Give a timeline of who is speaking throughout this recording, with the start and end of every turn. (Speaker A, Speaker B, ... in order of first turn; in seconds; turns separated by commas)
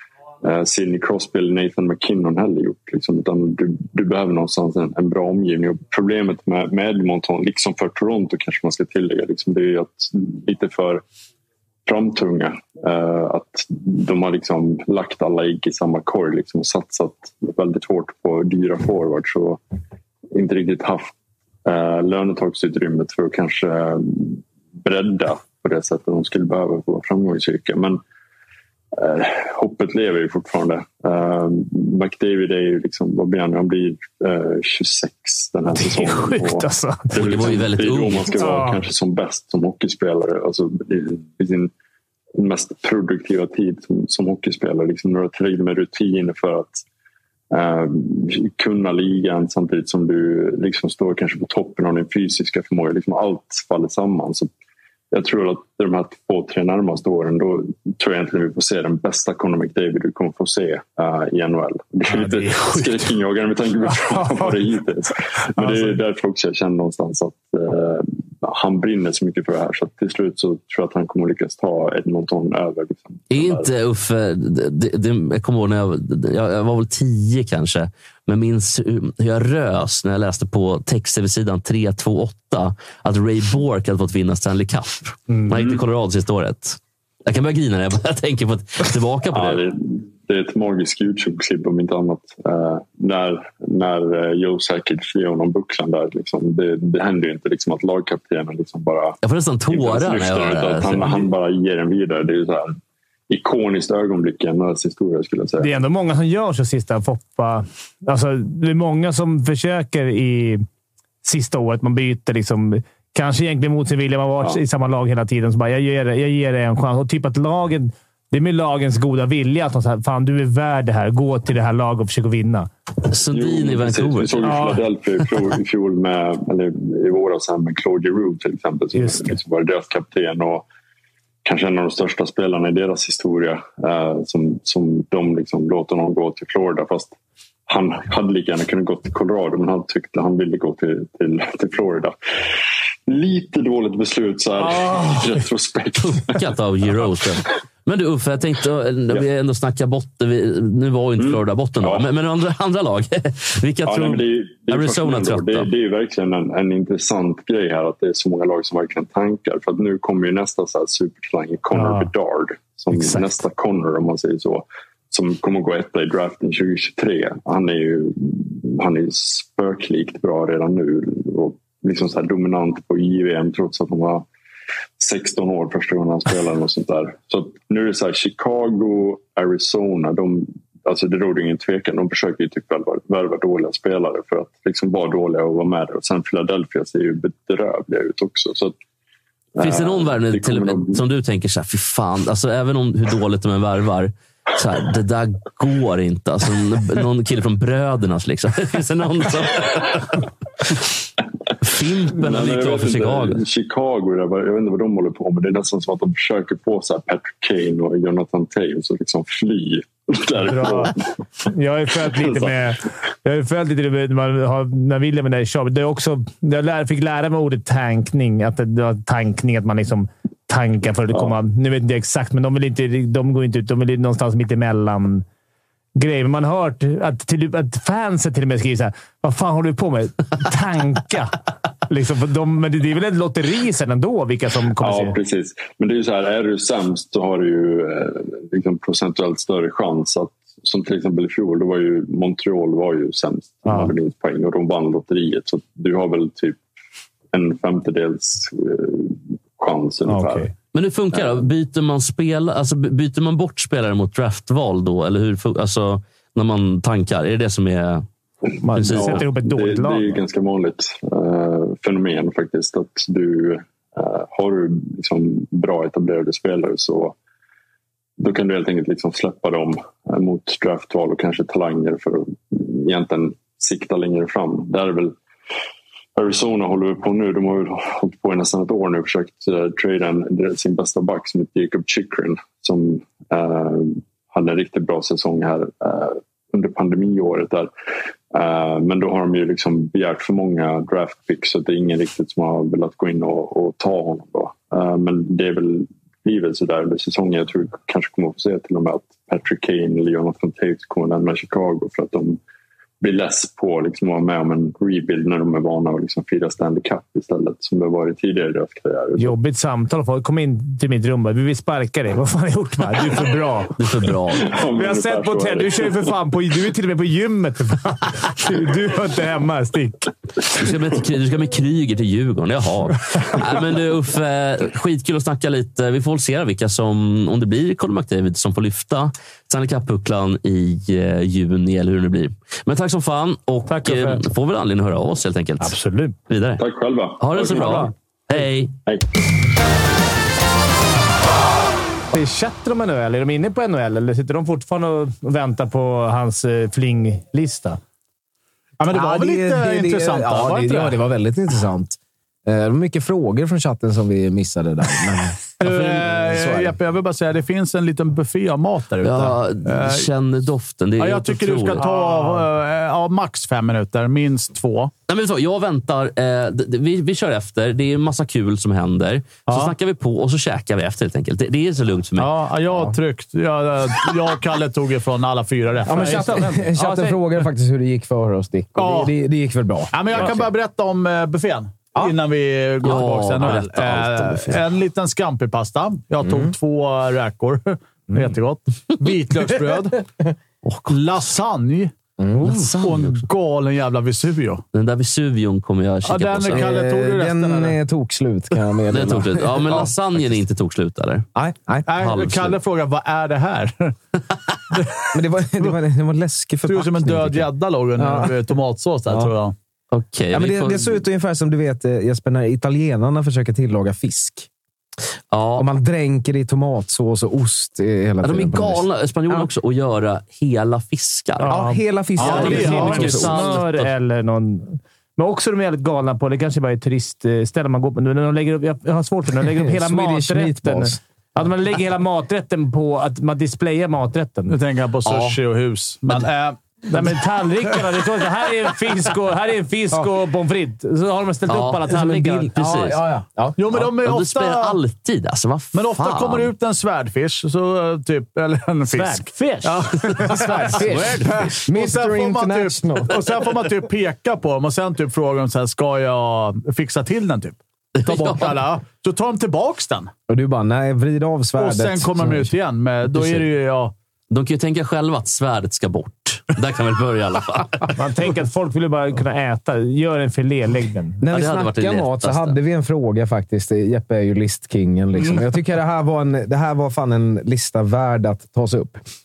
Speaker A: 0.4-11.0, Speaker A: 11.8-19.6, Speaker A: 20.3-21.1, Speaker A: 21.6-28.0, Speaker A: 28.9-41.7, Speaker B: 35.7-37.6, Speaker C: 37.1-38.5, Speaker B: 38.3-38.8, Speaker A: 42.4-46.8, Speaker A: 47.5-54.5, Speaker A: 55.1-73.7, Speaker B: 62.1-63.1, Speaker B: 63.9-64.8, Speaker B: 65.6-66.0, Speaker C: 73.3-89.6, Speaker A: 85.5-85.8, Speaker A: 89.2-102.8, Speaker C: 99.2-101.2, Speaker A: 103.3-105.7, Speaker B: 105.6-110.7, Speaker B: 111.2-122.7, Speaker C: 123.1-124.7, Speaker A: 123.3-130.7, Speaker B: 124.4-124.8, Speaker B: 128.9-129.4, Speaker A: 131.4-137.1, Speaker A: 137.7-142.2, Speaker A: 143.1-146.5, Speaker B: 144.6-145.4, Speaker C: 146.0-155.7, Speaker A: 151.2-152.1, Speaker A: 153.8-174.2, Speaker B: 161.7-162.1, Speaker B: 162.9-163.4, Speaker A: 175.0-188.8, Speaker A: 189.5-191.0, Speaker C: 189.6-200.2, Speaker C: 201.6-203.4, Speaker A: 202.0-211.1, Speaker B: 210.4-225.2, Speaker A: 212.0-212.5, Speaker B: 225.9-235.2, Speaker A: 234.8-246.6, Speaker B: 243.7-243.9, Speaker A: 247.3-250.5, Speaker B: 250.1-250.5, Speaker C: 250.7-258.1, Speaker A: 251.1-251.4, Speaker A: 258.5-267.2, Speaker B: 258.6-260.2, Speaker C: 258.8-259.2, Speaker A: 268.2-275.1, Speaker A: 276.1-287.7, Speaker A: 288.3-302.4, Speaker A: 303.0-309.4, Speaker B: 309.2-313.7, Speaker C: 313.8-314.4, Speaker A: 314.3-316.1, Speaker B: 314.4-320.1, Speaker C: 320.5-335.7, Speaker B: 333.7-334.2, Speaker B: 335.6-336.1, Speaker C: 336.3-336.6, Speaker A: 336.6-337.9, Speaker C: 337.2-338.7, Speaker B: 337.4-337.9, Speaker B: 342.1-347.8, Speaker D: 348.8-350.9, Speaker E: 348.9-355.5, Speaker D: 355.6-360.1, Speaker C: 355.6-356.1, Speaker E: 356.1-356.8, Speaker C: 359.0-361.9, Speaker D: 361.0-364.9, Speaker B: 361.8-362.4, Speaker C: 365.1-372.3, Speaker D: 369.4-369.7, Speaker D: 372.2-376.4, Speaker E: 375.9-380.4, Speaker B: 375.9-377.2, Speaker D: 378.8-379.1, Speaker D: 379.9-390.1, Speaker C: 382.8-384.6, Speaker E: 386.2-386.5, Speaker C: 390.6-391.0, Speaker D: 390.9-394.6, Speaker E: 392.2-392.6, Speaker C: 392.4-393.1, Speaker C: 394.7-396.7, Speaker D: 396.0-397.8, Speaker E: 396.5-399.8, Speaker C: 398.9-401.2, Speaker E: 401.3-401.9, Speaker D: 401.9-404.0, Speaker C: 401.9-402.6, Speaker D: 404.7-405.0, Speaker E: 405.1-408.4, Speaker D: 406.6-409.5, Speaker C: 409.9-410.9, Speaker E: 410.3-414.5, Speaker C: 415.3-415.7, Speaker E: 415.6-419.5, Speaker C: 418.2-421.5, Speaker B: 421.4-434.6, Speaker E: 421.5-423.4, Speaker D: 422.2-423.3, Speaker C: 422.2-423.9, Speaker E: 429.5-431.0, Speaker D: 434.5-437.8, Speaker C: 435.0-435.4, Speaker B: 436.9-442.5, Speaker C: 441.5-441.9, Speaker E: 441.9-443.6, Speaker C: 442.5-443.0, Speaker D: 443.6-444.8, Speaker C: 443.7-446.5, Speaker D: 445.7-460.1, Speaker B: 448.9-450.8, Speaker E: 450.2-453.4, Speaker C: 450.9-451.3, Speaker C: 457.9-458.6, Speaker E: 460.3-462.5, Speaker D: 461.6-463.9, Speaker C: 463.1-463.4, Speaker C: 464.3-468.0, Speaker B: 467.9-471.2, Speaker E: 471.2-479.0, Speaker C: 471.3-472.6